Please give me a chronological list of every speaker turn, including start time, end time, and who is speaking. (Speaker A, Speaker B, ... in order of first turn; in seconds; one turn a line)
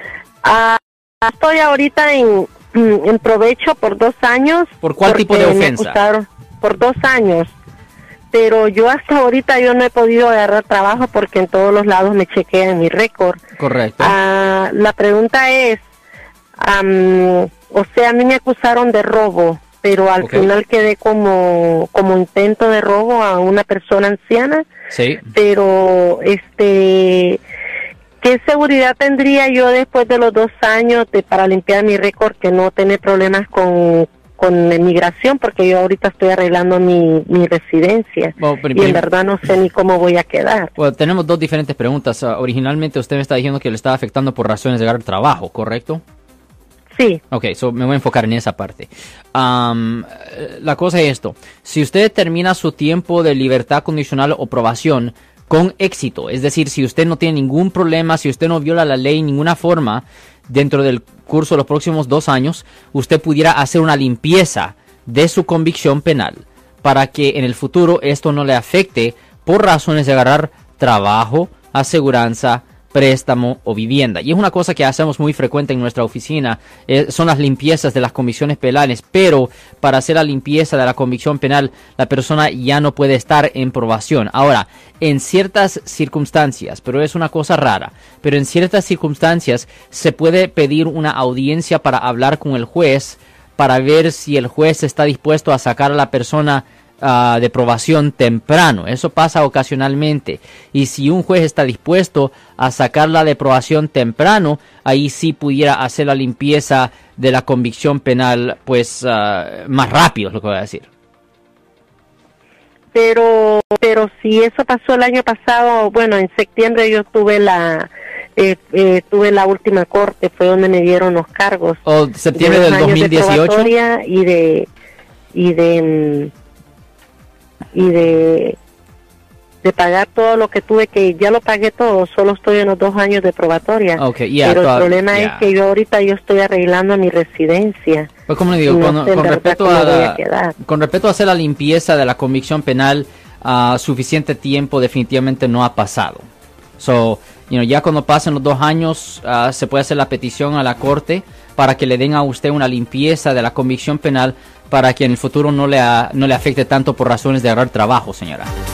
Speaker A: 0.4-7.5
Speaker B: 4.8-6.0
Speaker A: 8.3-13.4
Speaker B: 13.6-14.2
Speaker A: 14.0-15.8
Speaker A: 16.6-24.7
Speaker B: 20.2-20.5
Speaker B: 24.9-25.3
Speaker A: 25.3-27.4
Speaker A: 28.2-40.7
Speaker B: 38.4-39.0
Speaker B: 40.8-46.0
Speaker A: 46.9-47.2
Speaker B: 47.3-110.9
Speaker A: 112.9-121.8
Speaker B: 121.8-123.7
Speaker A: 122.3-124.7
Speaker A: 125.3-126.3
Speaker A: 127.7-128.6
Speaker A: 129.6-138.1
Speaker B: 134.0-135.5
Speaker B: 138.3-146.2
Speaker A: 138.7-140.6
Speaker B: 146.8-158.5